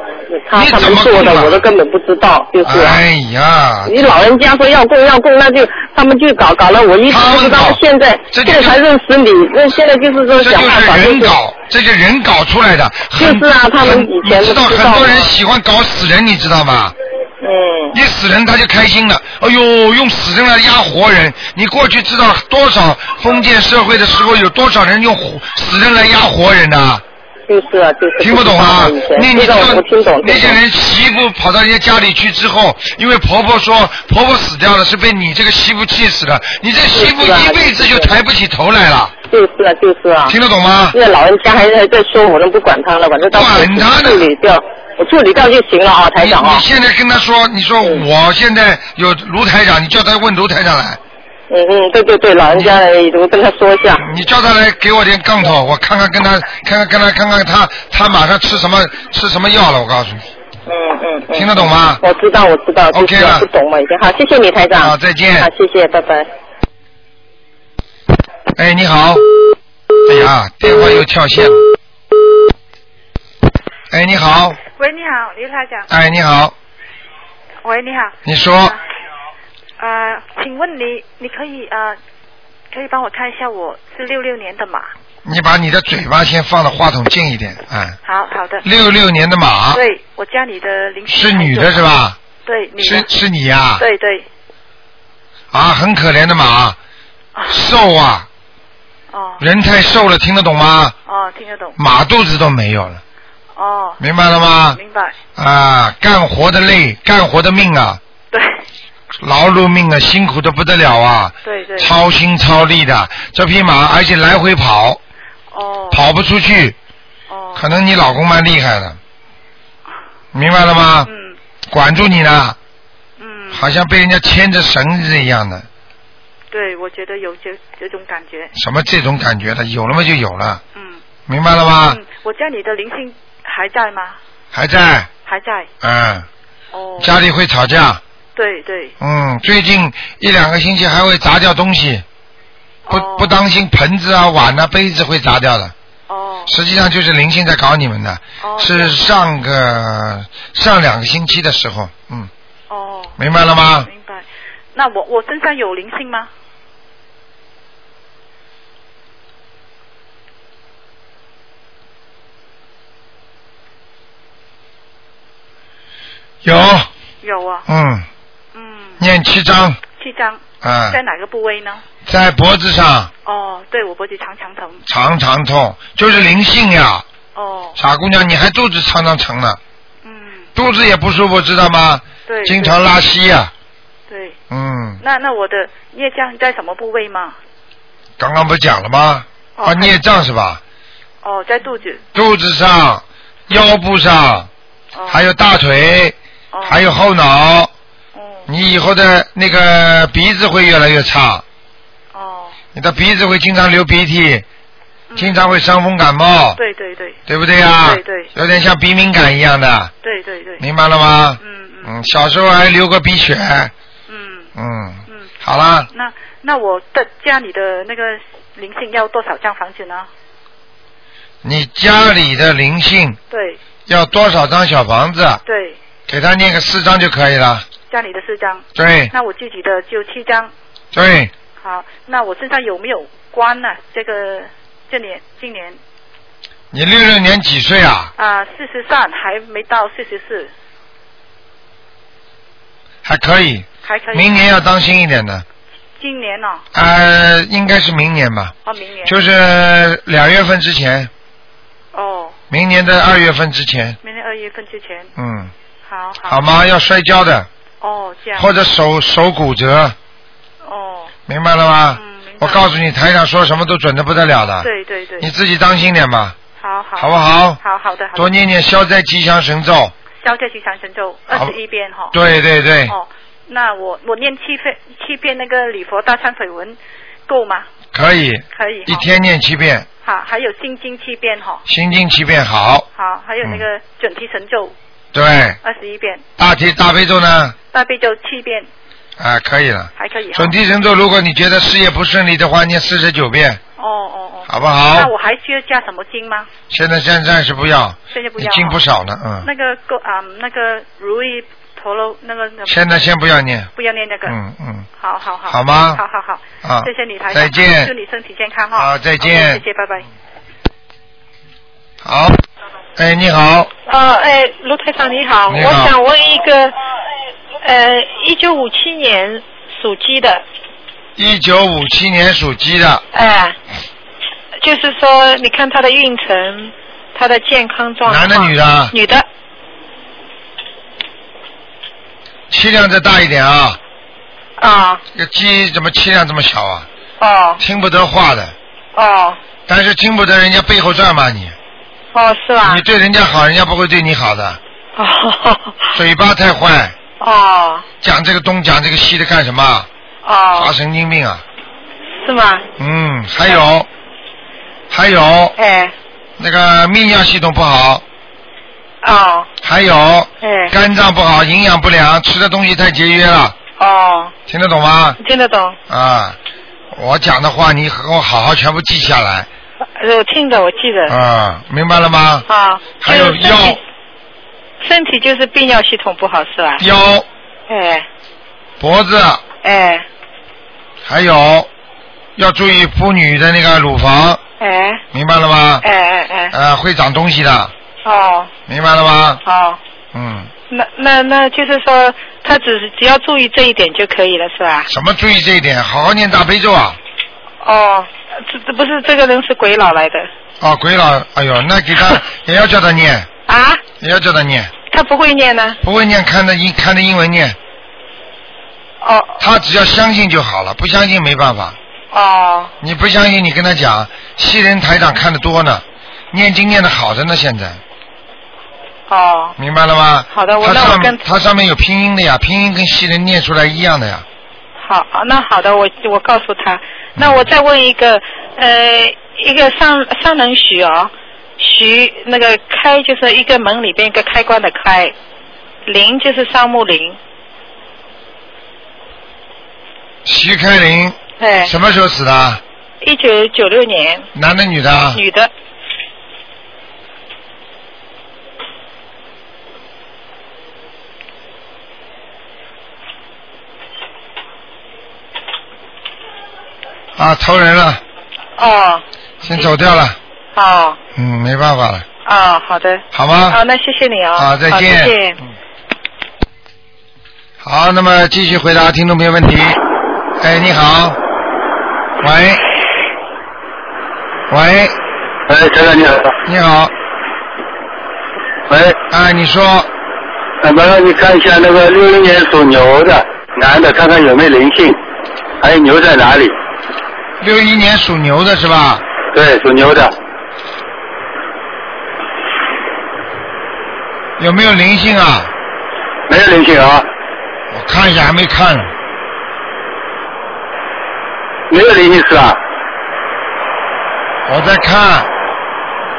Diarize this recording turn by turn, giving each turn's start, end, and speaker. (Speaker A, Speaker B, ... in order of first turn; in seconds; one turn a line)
Speaker A: 0.3-3.0
Speaker B: 0.5-1.6
Speaker B: 2.6-4.1
Speaker A: 3.9-11.3
Speaker B: 7.1-7.8
Speaker B: 8.3-8.8
Speaker B: 10.3-16.9
Speaker A: 13.2-15.2
Speaker A: 17.4-17.9
Speaker B: 17.9-27.0
Speaker A: 27.5-30.6
Speaker B: 28.2-39.1
Speaker A: 36.9-38.1
Speaker A: 39.3-40.3
Speaker B: 40.3-41.0
Speaker A: 40.9-46.6
Speaker B: 43.3-44.3
Speaker B: 46.2-51.0
Speaker A: 51.5-54.0
Speaker B: 54.0-60.3
Speaker A: 60.7-66.3
Speaker B: 61.3-62.0
Speaker B: 62.9-63.5
Speaker B: 64.8-65.5
Speaker B: 68.5-69.2
Speaker B: 70.0-71.6
Speaker B: 73.9-74.6
Speaker C: 74.8-75.9
Speaker B: 75.9-76.5
Speaker C: 77.6-78.7
Speaker B: 78.2-78.8
Speaker C: 79.8-82.0
Speaker C: 82.7-84.9
Speaker B: 85.2-88.0
Speaker C: 88.0-88.6
Speaker B: 88.6-89.8
Speaker C: 89.7-91.9
Speaker B: 91.0-92.2
Speaker C: 92.4-93.1
Speaker B: 92.8-93.8
Speaker C: 93.8-94.2
Speaker B: 95.5-96.8
Speaker C: 97.3-97.7
Speaker B: 97.5-98.2
Speaker C: 99.1-99.4
Speaker B: 99.4-100.9
Speaker C: 101.0-101.8
Speaker B: 101.8-103.0
Speaker C: 103.5-104.0
Speaker B: 104.0-104.8
Speaker C: 104.7-105.2
Speaker B: 105.3-108.0
Speaker C: 108.3-108.6
Speaker B: 109.2-115.0
Speaker C: 111.4-111.9
Speaker C: 115.5-116.0
Speaker B: 115.9-116.8
Speaker C: 117.3-117.7
Speaker B: 117.5-119.0
Speaker B: 120.3-121.1
Speaker C: 121.0-121.4
Speaker B: 121.7-122.6
Speaker C: 123.2-123.7
Speaker B: 123.5-125.7
Speaker C: 126.5-128.5
Speaker B: 128.5-130.6
Speaker C: 130.7-131.0
Speaker B: 131.3-132.0
Speaker C: 131.8-134.2
Speaker B: 134.5-135.1
Speaker C: 135.2-135.7
Speaker B: 135.8-136.3
Speaker C: 136.7-137.2
Speaker B: 137.0-138.0
Speaker C: 138.3-138.9
Speaker B: 139.0-142.0
Speaker C: 142.8-143.3
Speaker B: 142.9-145.7
Speaker C: 146.1-146.5
Speaker B: 146.5-152.3
Speaker C: 148.4-149.0
Speaker C: 152.7-153.2
Speaker B: 153.2-153.9
Speaker C: 153.8-156.3
Speaker B: 166.4-166.9
Speaker C: 167.2-167.7
Speaker B: 167.7-168.1
Speaker C: 168.5-169.0
Speaker B: 169.0-169.8
Speaker C: 170.0-171.8
Speaker B: 170.6-171.0
Speaker B: 172.0-173.1
Speaker C: 173.2-174.8
Speaker B: 174.9-177.0
Speaker C: 177.3-177.8
Speaker B: 177.8-179.6
Speaker C: 180.0-180.5
Speaker B: 180.5-183.5
Speaker C: 182.3-182.8
Speaker C: 184.1-184.4
Speaker B: 184.5-185.0
Speaker C: 185.0-187.3
Speaker B: 188.2-190.6
Speaker C: 189.6-189.9
Speaker C: 191.2-192.0
Speaker B: 192.1-194.5
Speaker C: 194.9-195.3
Speaker B: 195.1-197.7
Speaker C: 196.5-196.8
Speaker C: 198.1-198.5
Speaker B: 198.5-201.4
Speaker C: 202.1-202.6
Speaker B: 202.7-204.4
Speaker C: 205.1-205.6
Speaker B: 205.2-206.6
Speaker C: 206.6-207.2
Speaker B: 207.3-209.9
Speaker C: 207.8-208.3
Speaker C: 210.0-210.6
Speaker B: 210.6-213.7
Speaker C: 211.4-211.9
Speaker C: 214.1-214.5
Speaker B: 214.5-215.9
Speaker C: 215.1-215.3
Speaker C: 215.9-220.1
Speaker B: 221.4-223.2
Speaker C: 223.3-223.6
Speaker B: 223.9-225.4
Speaker C: 225.4-225.8
Speaker B: 226.1-227.7
Speaker C: 227.9-230.5
Speaker B: 228.7-229.1
Speaker B: 230.9-231.3
Speaker C: 231.6-235.8
Speaker B: 236.7-238.1
Speaker C: 238.2-240.5
Speaker B: 243.0-245.4
Speaker C: 243.8-244.3
Speaker C: 246.0-246.6
Speaker B: 246.7-248.5
Speaker C: 248.6-249.2
Speaker B: 249.0-251.1
Speaker C: 251.9-252.3
Speaker B: 252.5-254.0
Speaker C: 254.0-255.1
Speaker B: 255.2-255.5
Speaker C: 255.8-256.4
Speaker B: 256.3-257.5
Speaker C: 257.8-258.5
Speaker B: 258.4-259.9
Speaker C: 260.6-261.1
Speaker B: 261.3-264.7
Speaker C: 261.9-262.7
Speaker C: 264.6-265.3
Speaker B: 265.2-266.3
Speaker C: 266.6-268.3
Speaker B: 267.0-267.6
Speaker B: 268.1-269.9
Speaker C: 270.2-272.2
Speaker B: 271.3-271.5
Speaker B: 272.1-272.9
Speaker C: 272.9-277.6
Speaker B: 277.9-279.9
Speaker C: 278.5-279.1
Speaker C: 280.0-281.6
Speaker B: 281.6-282.9
Speaker C: 282.9-284.7
Speaker B: 285.1-285.6
Speaker C: 285.6-286.2
Speaker B: 286.4-287.6
Speaker C: 287.7-288.7
Speaker B: 289.2-293.6
Speaker C: 290.0-290.5
Speaker C: 293.8-296.5
Speaker B: 294.4-295.1
Speaker B: 296.7-299.5
Speaker C: 298.1-298.8
Speaker C: 299.4-303.1
Speaker B: 302.6-303.7
Speaker C: 303.7-304.4
Speaker B: 304.2-304.9
Speaker C: 305.0-310.1
Speaker B: 305.5-306.0
Speaker B: 306.6-307.9
Speaker B: 308.7-309.6
Speaker B: 312.0-312.4
Speaker B: 312.9-313.7
Speaker D: 313.9-316.7
Speaker B: 315.5-315.9
Speaker D: 317.6-320.4
Speaker B: 321.1-323.0
Speaker D: 323.1-323.6
Speaker D: 324.6-329.2
Speaker B: 328.0-328.9
Speaker B: 332.5-333.8
Speaker D: 334.6-335.0
Speaker B: 335.1-336.9
Speaker D: 337.2-337.6
Speaker B: 337.6-338.5
Speaker D: 338.9-339.4
Speaker B: 339.7-341.5
Speaker D: 342.1-342.8
Speaker B: 342.6-344.6
Speaker D: 344.9-346.0
Speaker B: 345.9-346.9
Speaker D: 347.2-347.8
Speaker B: 348.0-349.9
Speaker D: 350.2-350.7
Speaker B: 350.5-351.4
Speaker D: 352.2-352.6
Speaker B: 352.8-353.9
Speaker B: 354.9-355.6
Speaker D: 355.6-355.9
Speaker B: 356.4-358.0
Speaker D: 359.0-359.5
Speaker B: 359.6-363.6
Speaker D: 360.4-360.7
Speaker D: 363.8-364.3
Speaker B: 364.5-365.2
Speaker D: 365.2-365.8
Speaker B: 365.9-366.4
Speaker B: 366.9-369.5
Speaker D: 370.0-371.2
Speaker B: 371.1-372.4
Speaker D: 372.5-373.8
Speaker B: 373.0-373.8
Speaker D: 374.8-376.8
Speaker B: 376.8-377.2
Speaker D: 377.7-378.1
Speaker B: 378.8-379.4
Speaker D: 379.6-380.1
Speaker B: 381.0-381.7
Speaker B: 382.4-384.4
Speaker D: 384.6-385.0
Speaker B: 385.1-385.8
Speaker D: 385.8-386.5
Speaker B: 386.5-387.7
Speaker D: 388.0-388.5
Speaker B: 388.7-389.4
Speaker D: 389.4-389.8
Speaker B: 390.1-390.5
Speaker D: 390.7-394.9
Speaker B: 394.9-397.0
Speaker D: 397.6-400.3
Speaker B: 400.6-403.3
Speaker D: 403.5-403.8
Speaker B: 404.0-404.7
Speaker D: 404.9-405.8
Speaker B: 405.8-407.6
Speaker D: 409.0-409.4
Speaker B: 409.4-411.8
Speaker D: 412.1-412.7
Speaker B: 412.8-417.8
Speaker D: 419.1-419.6
Speaker B: 419.6-424.2
Speaker D: 420.3-421.2
Speaker D: 424.8-435.1
Speaker B: 427.2-427.5
Speaker D: 435.9-437.2
Speaker B: 440.2-442.6
Speaker D: 441.4-441.7
Speaker D: 443.0-444.3
Speaker B: 444.3-445.2
Speaker D: 445.1-445.5
Speaker B: 457.2-458.0
Speaker D: 458.6-459.7
Speaker B: 459.4-460.2
Speaker D: 460.5-461.0
Speaker B: 461.1-462.1
Speaker D: 462.2-465.4
Speaker B: 463.1-463.6
Speaker B: 464.3-465.5
Speaker B: 467.6-469.8
Speaker B: 470.4-471.2
Speaker B: 472.2-472.6
Speaker B: 474.5-474.9
Speaker E: 475.5-476.4
Speaker B: 476.4-476.9
Speaker E: 478.7-479.0
Speaker B: 479.1-479.9
Speaker E: 480.6-485.0
Speaker E: 485.6-486.5
Speaker B: 487.4-489.0
Speaker E: 489.3-490.1
Speaker B: 494.4-495.5
Speaker E: 496.3-497.1
Speaker B: 497.7-498.9
Speaker E: 501.7-502.6
Speaker B: 504.4-505.3